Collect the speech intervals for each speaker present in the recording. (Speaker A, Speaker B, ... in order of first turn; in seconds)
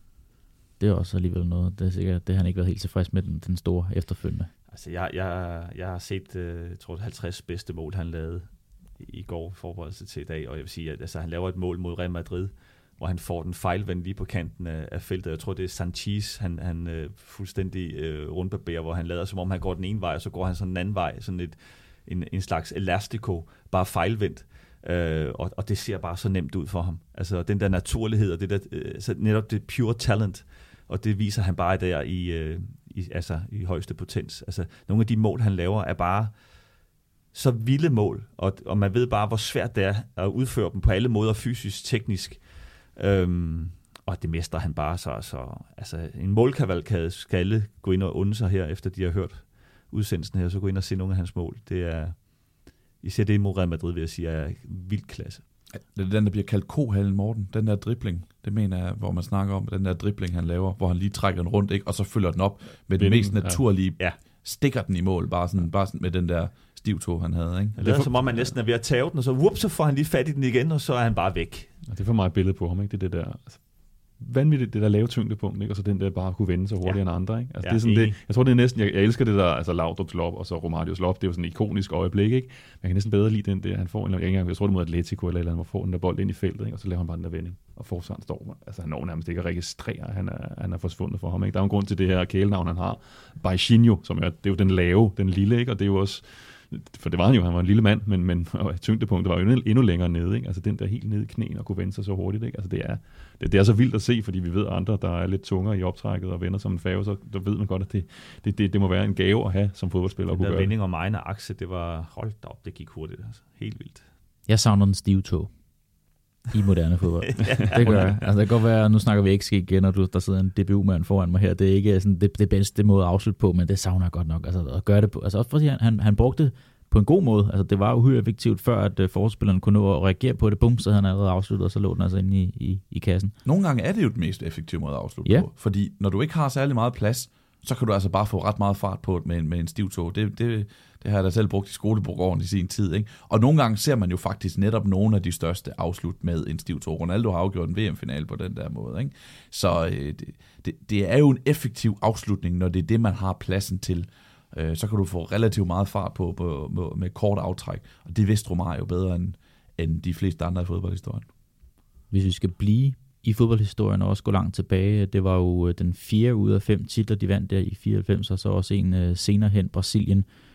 Speaker A: 0.8-4.5, 114.5-115.5, 116.5-133.3, 162.1-170.3
Speaker B: 4.7-36.4, 37.3-55.4, 67.8-71.8, 76.8-78.2, 110.3-114.1, 117.3-118.3
Speaker C: 55.9-67.8, 133.4-161.2
Speaker D: 62.9-63.6, 67.8-68.5, 71.9-110.7